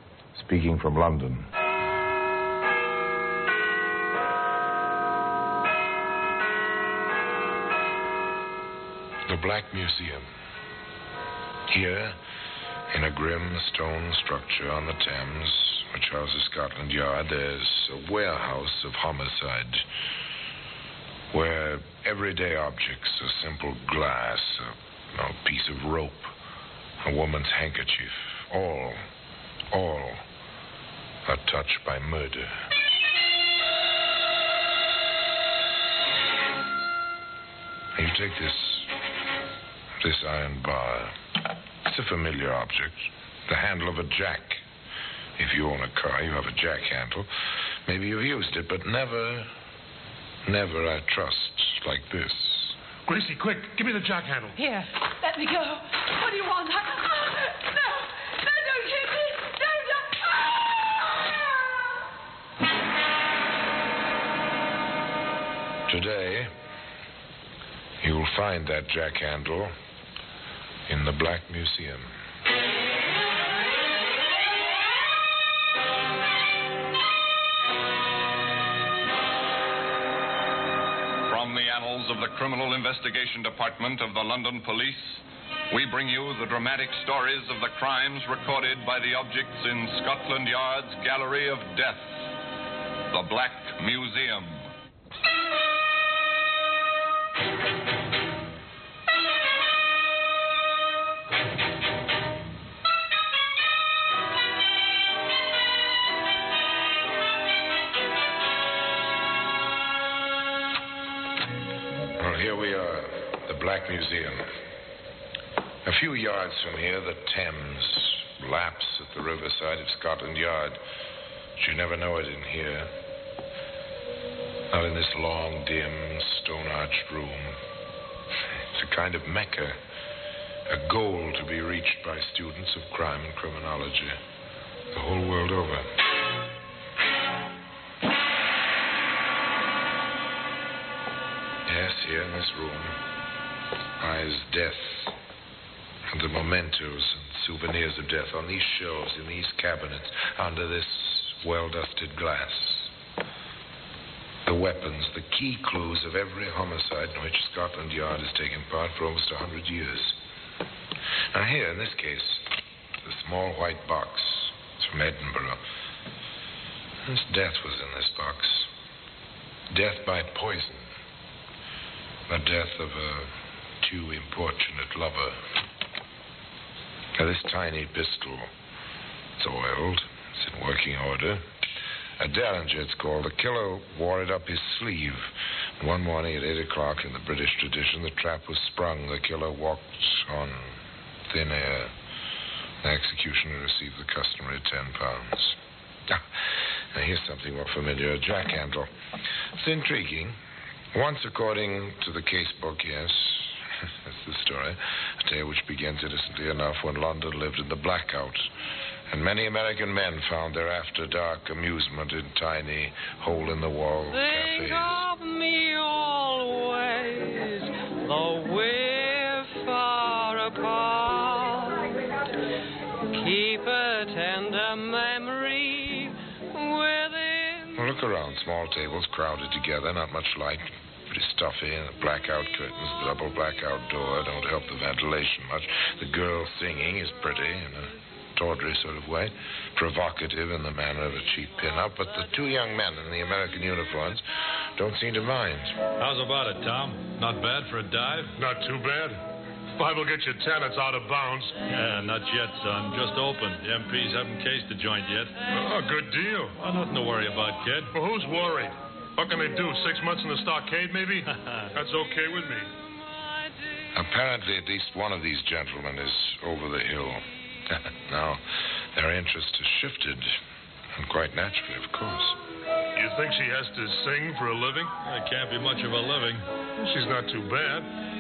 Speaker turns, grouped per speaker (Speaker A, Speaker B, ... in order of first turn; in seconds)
Speaker A: 0.3-1.5, 9.3-10.3, 11.7-12.2, 12.9-19.9, 21.3-26.3, 27.0-29.0, 29.7-30.2, 31.2-32.7, 38.0-38.9, 40.0-41.2, 41.8-44.6, 45.4-47.3, 47.9-49.5, 50.5-52.8, 65.9-66.5, 68.0-69.7, 70.9-72.1, 112.2-114.6, 115.8-120.8, 121.6-122.9, 124.7-127.6, 128.7-129.8, 130.7-134.2, 134.9-135.9, 141.7-143.0, 144.0-145.2, 146.1-152.9, 154.4-160.2, 161.3-162.4, 163.0-165.6, 167.0-168.7, 169.7-170.9, 172.3-175.4, 177.2-178.5, 179.4-181.4, 182.2-191.9, 192.8-200.4, 200.9-208.5, 209.1-215.1, 227.8-244.2, 244.8-245.8, 263.9-270.4, 270.9-272.4
Speaker B: 53.1-54.6, 248.4-251.6, 255.5-256.6, 257.9-262.7, 272.9-274.9, 276.8-277.9
Speaker C: 54.6-54.9, 214.1-221.9, 223.1-227.7
Speaker D: 55.1-61.4
Speaker E: 81.3-92.3, 93.1-94.7
Speaker F: 246.0-248.3, 251.7-255.4, 256.6-257.9, 261.3-261.7, 275.0-276.5